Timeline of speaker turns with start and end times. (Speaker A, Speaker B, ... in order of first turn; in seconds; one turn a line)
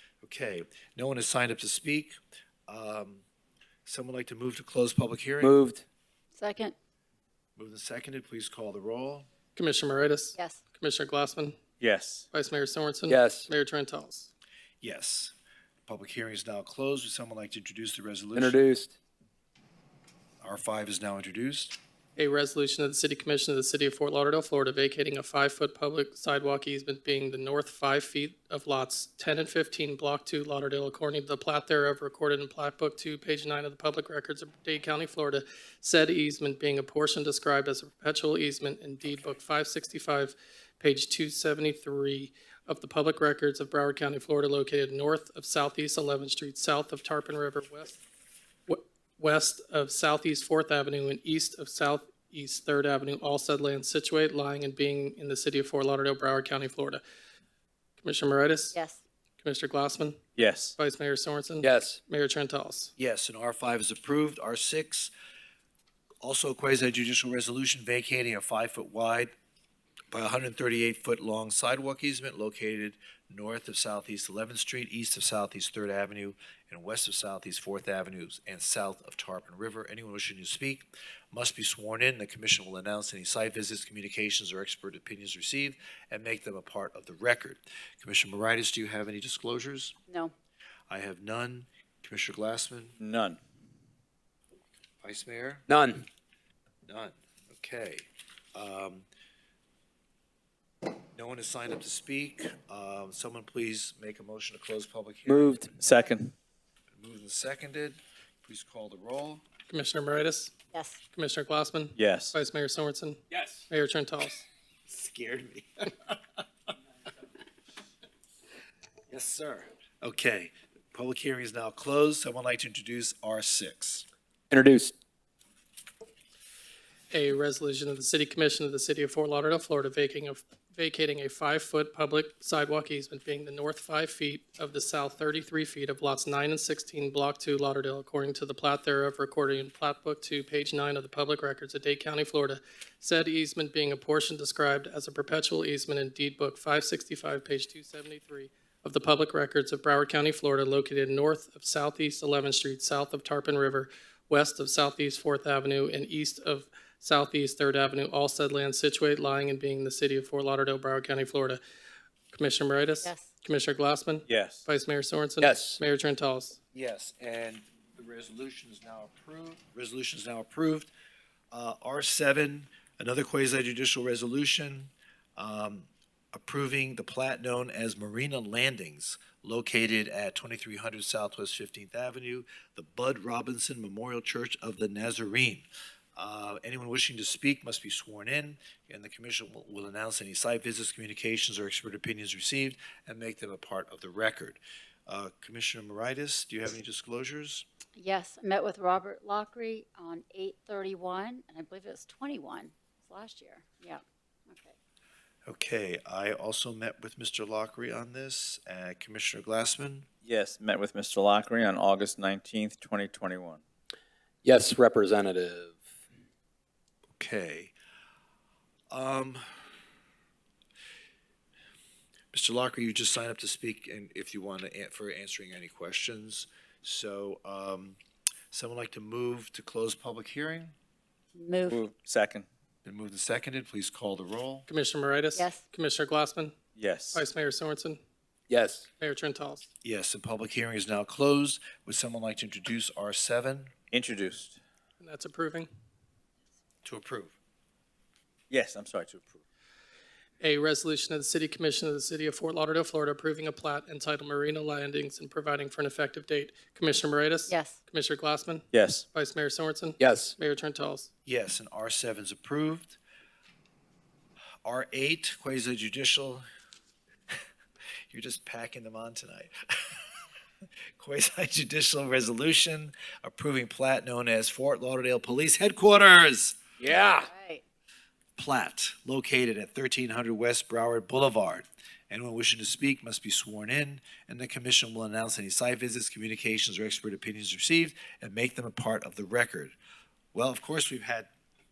Speaker A: 0.2-2.1
Speaker A: 2.7-3.2
Speaker A: 3.9-5.6
Speaker B: 5.4-5.8
Speaker C: 6.4-6.7
Speaker A: 7.6-9.3
Speaker D: 9.6-11.6
Speaker C: 10.4-10.6
Speaker E: 11.8-12.3
Speaker D: 12.3-14.3
Speaker B: 13.1-13.5
Speaker A: 14.8-15.3
Speaker A: 15.8-18.6
Speaker B: 18.3-18.9
Speaker A: 20.4-21.8
Speaker D: 22.2-48.0
Speaker D: 48.7-57.0
Speaker D: 58.0-58.8
Speaker C: 58.7-59.0
Speaker D: 59.4-60.2
Speaker E: 60.4-60.7
Speaker D: 60.8-62.9
Speaker B: 61.6-62.0
Speaker A: 63.0-65.1
Speaker A: 66.2-69.3
Speaker A: 70.1-90.0
Speaker A: 90.9-93.0
Speaker E: 93.0-93.4
Speaker A: 95.0-95.7
Speaker B: 95.7-96.1
Speaker A: 96.9-99.1
Speaker A: 101.2-105.6
Speaker B: 105.3-105.7
Speaker E: 105.8-106.3
Speaker A: 107.0-109.4
Speaker D: 109.7-110.5
Speaker C: 110.7-111.0
Speaker D: 111.1-114.5
Speaker E: 112.0-112.4
Speaker B: 113.3-113.6
Speaker A: 114.9-115.9
Speaker A: 119.1-124.1
Speaker B: 124.5-124.9
Speaker D: 127.1-161.6
Speaker D: 162.3-166.6
Speaker C: 163.0-163.3
Speaker E: 164.3-164.6
Speaker B: 165.4-165.8
Speaker A: 166.7-170.9
Speaker A: 171.5-197.6
Speaker C: 198.0-204.8
Speaker A: 205.4-210.1
Speaker E: 210.2-213.6
Speaker B: 214.4-215.9
Speaker A: 217.2-217.7
Speaker A: 218.9-219.4
Speaker A: 222.3-228.0
Speaker A: 228.5-230.7
Speaker C: 231.3-231.8
Speaker E: 231.7-232.5
Speaker A: 232.8-234.7
Speaker D: 234.7-236.5
Speaker C: 235.3-235.6
Speaker E: 236.8-237.2
Speaker D: 237.1-238.0
Speaker B: 238.5-238.9
Speaker D: 239.0-239.7
Speaker A: 239.8-243.8
Speaker E: 243.9-244.6
Speaker D: 245.0-245.7
Speaker A: 246.8-247.3
Speaker E: 248.5-249.4
Speaker D: 250.4-261.1
Speaker C: 257.5-257.8
Speaker E: 258.7-259.0
Speaker B: 260.0-260.4
Speaker A: 261.2-263.0
Speaker A: 264.6-266.4
Speaker A: 268.1-270.0
Speaker A: 271.0-276.6
Speaker B: 276.8-277.3
Speaker C: 277.3-277.6
Speaker A: 278.4-289.8
Speaker A: 290.3-291.3